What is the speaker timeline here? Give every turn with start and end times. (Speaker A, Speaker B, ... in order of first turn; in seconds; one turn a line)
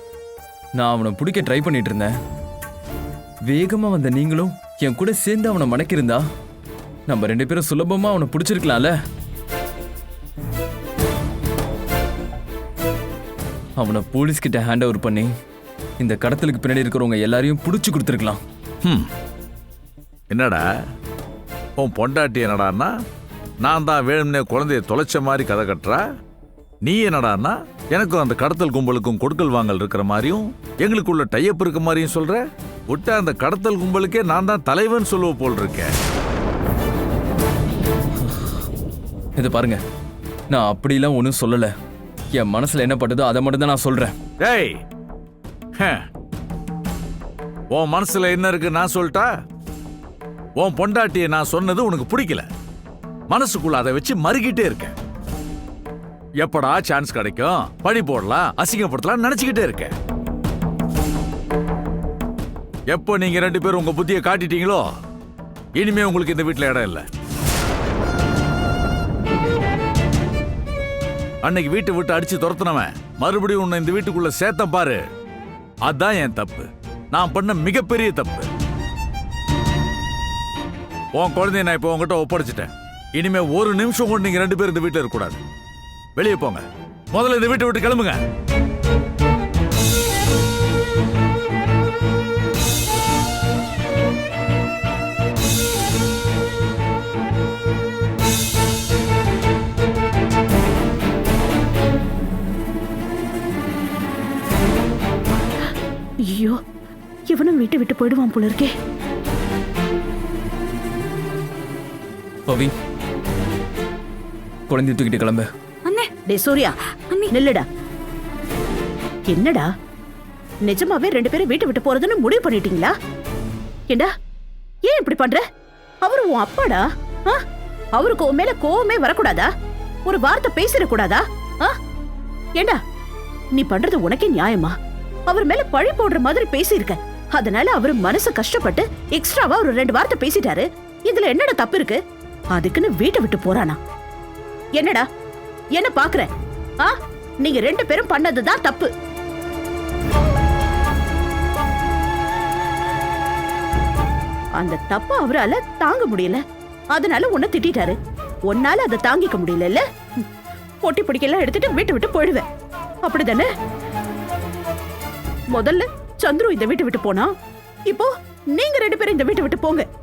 Speaker A: 0.8-2.1
Speaker A: 3.5-6.2
Speaker A: 7.1-8.9
Speaker A: 13.8-15.3
Speaker A: 16.0-18.4
Speaker B: 20.3-20.6
Speaker B: 21.8-22.9
Speaker B: 23.6-26.1
Speaker B: 26.8-35.9
Speaker A: 39.4-39.8
Speaker A: 40.5-41.7
Speaker A: 42.3-44.1
Speaker B: 44.4-44.8
Speaker B: 45.8-46.0
Speaker B: 47.7-49.3
Speaker B: 50.6-52.5
Speaker B: 53.3-54.9
Speaker B: 56.4-59.9
Speaker B: 62.9-64.9
Speaker B: 65.8-67.1
Speaker B: 71.4-75.0
Speaker B: 75.9-78.5
Speaker B: 81.2-85.4
Speaker B: 86.2-88.2
Speaker C: 106.3-106.6
Speaker C: 107.3-108.7
Speaker A: 112.5-112.7
Speaker A: 114.7-115.5
Speaker C: 115.9-117.7
Speaker C: 119.3-119.7
Speaker C: 120.7-122.9
Speaker C: 124.9-125.4
Speaker C: 126.0-127.4
Speaker C: 128.0-129.5
Speaker C: 130.1-131.8
Speaker C: 133.6-134.7
Speaker C: 135.3-142.0
Speaker C: 142.5-143.8
Speaker C: 144.8-145.1
Speaker C: 145.8-146.3
Speaker C: 146.8-148.9
Speaker C: 154.6-156.4
Speaker C: 156.9-158.0
Speaker C: 158.5-160.3
Speaker C: 160.8-162.4
Speaker C: 163.1-163.5
Speaker C: 165.5-167.3
Speaker C: 167.9-169.9